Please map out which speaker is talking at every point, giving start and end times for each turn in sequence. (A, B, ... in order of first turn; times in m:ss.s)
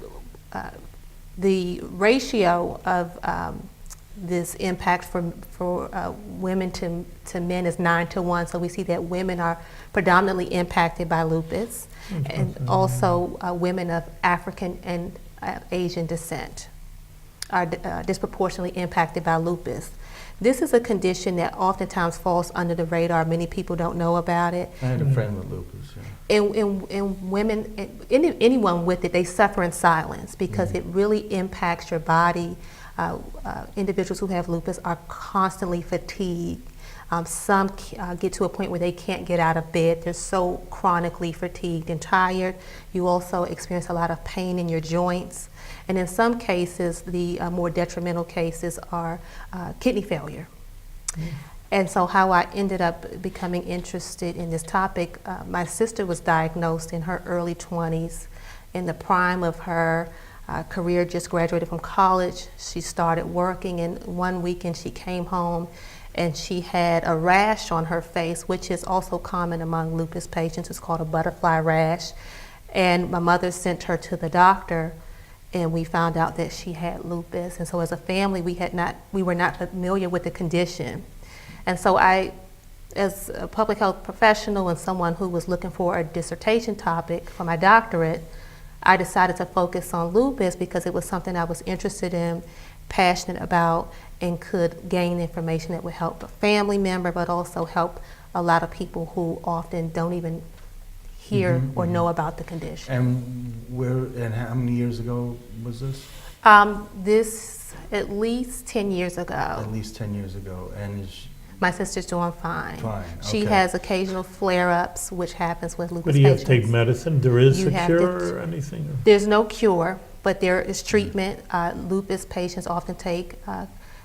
0:01.4-0:16.7 A
0:12.1-0:13.2 B
0:17.5-0:24.8 A
0:24.8-0:26.1 C
0:25.0-0:25.2 B
0:26.3-0:50.5 A
0:30.5-0:30.8 C
0:51.7-1:12.1 A
1:12.7-1:14.9 A
1:15.5-1:21.0 A
1:21.6-1:22.3 A
1:23.0-1:28.3 A
1:28.8-1:40.4 A
1:41.2-1:42.9 A
1:41.3-1:42.0 C
1:42.8-1:46.1 C
1:46.4-1:49.7 A
1:49.6-1:51.3 C
1:51.6-1:56.7 A
1:52.8-1:53.6 C
1:56.0-1:59.0 B
1:57.5-1:58.3 A
1:59.0-2:03.7 A